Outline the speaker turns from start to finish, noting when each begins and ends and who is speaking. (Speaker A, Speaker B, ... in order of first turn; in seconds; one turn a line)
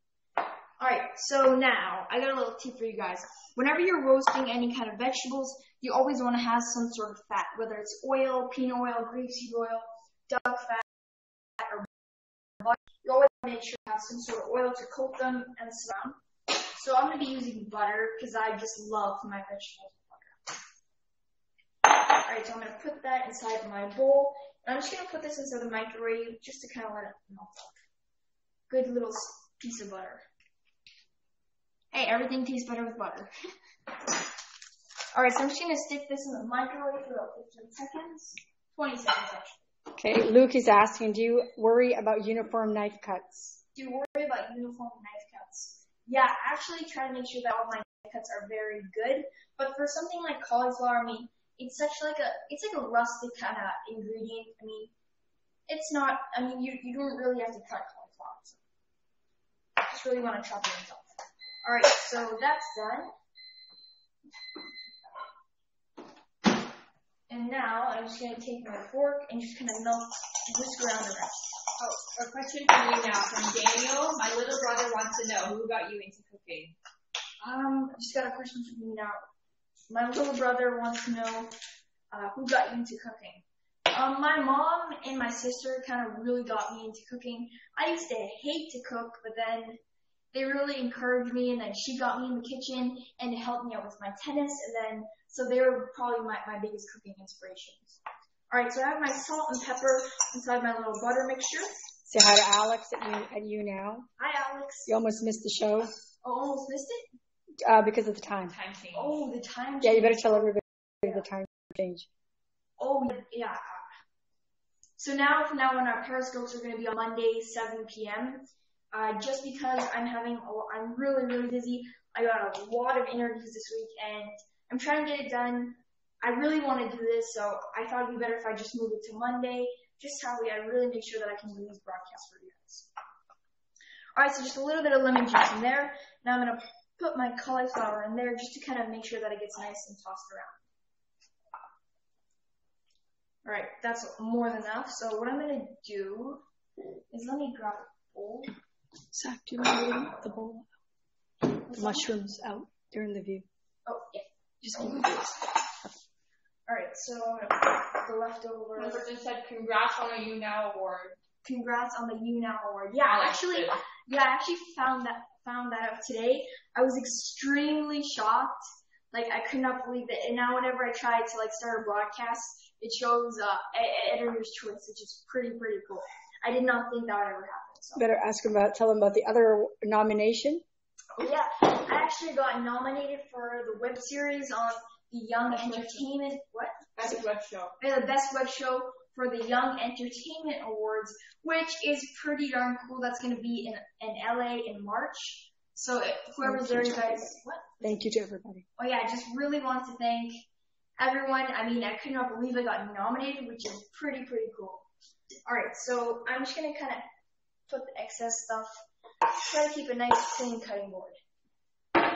Speaker A: 0.8-11.9
Speaker A: 12.6-20.5
Speaker A: 21.9-27.7
Speaker A: 28.7-30.2
Speaker A: 31.9-33.3
Speaker A: 35.1-39.6
Speaker B: 40.0-43.6
Speaker A: 43.8-54.9
Speaker A: 55.7-58.6
Speaker A: 59.8-61.1
Speaker A: 61.6-63.1
Speaker A: 67.3-71.5
Speaker C: 71.8-76.8
Speaker A: 77.4-79.2
Speaker A: 79.9-81.5
Speaker A: 82.1-89.8
Speaker A: 90.3-98.0
Speaker A: 98.5-101.8
Speaker B: 102.1-104.1
Speaker A: 104.2-104.9
Speaker B: 104.9-105.9
Speaker A: 106.2-107.0
Speaker B: 107.6-108.5
Speaker C: 108.5-109.2
Speaker A: 108.9-110.5
Speaker B: 109.8-112.1
Speaker A: 112.8-113.9
Speaker A: 115.0-132.9
Speaker A: 134.2-140.6
Speaker A: 143.4-146.4
Speaker A: 147.1-148.5
Speaker B: 149.1-150.7
Speaker A: 151.6-152.4
Speaker B: 151.7-153.5
Speaker A: 153.9-155.4
Speaker B: 154.8-155.1
Speaker A: 156.7-159.1
Speaker C: 158.8-161.2
Speaker A: 161.4-178.0
Speaker C: 163.1-163.8
Speaker B: 178.0-180.6
Speaker A: 181.2-186.9
Speaker C: 185.5-186.0
Speaker C: 187.0-187.8
Speaker A: 187.8-198.0
Speaker B: 196.4-198.7
Speaker A: 198.8-200.4
Speaker A: 201.0-204.9
Speaker A: 205.5-207.0
Speaker A: 207.7-208.8
Speaker A: 209.3-211.2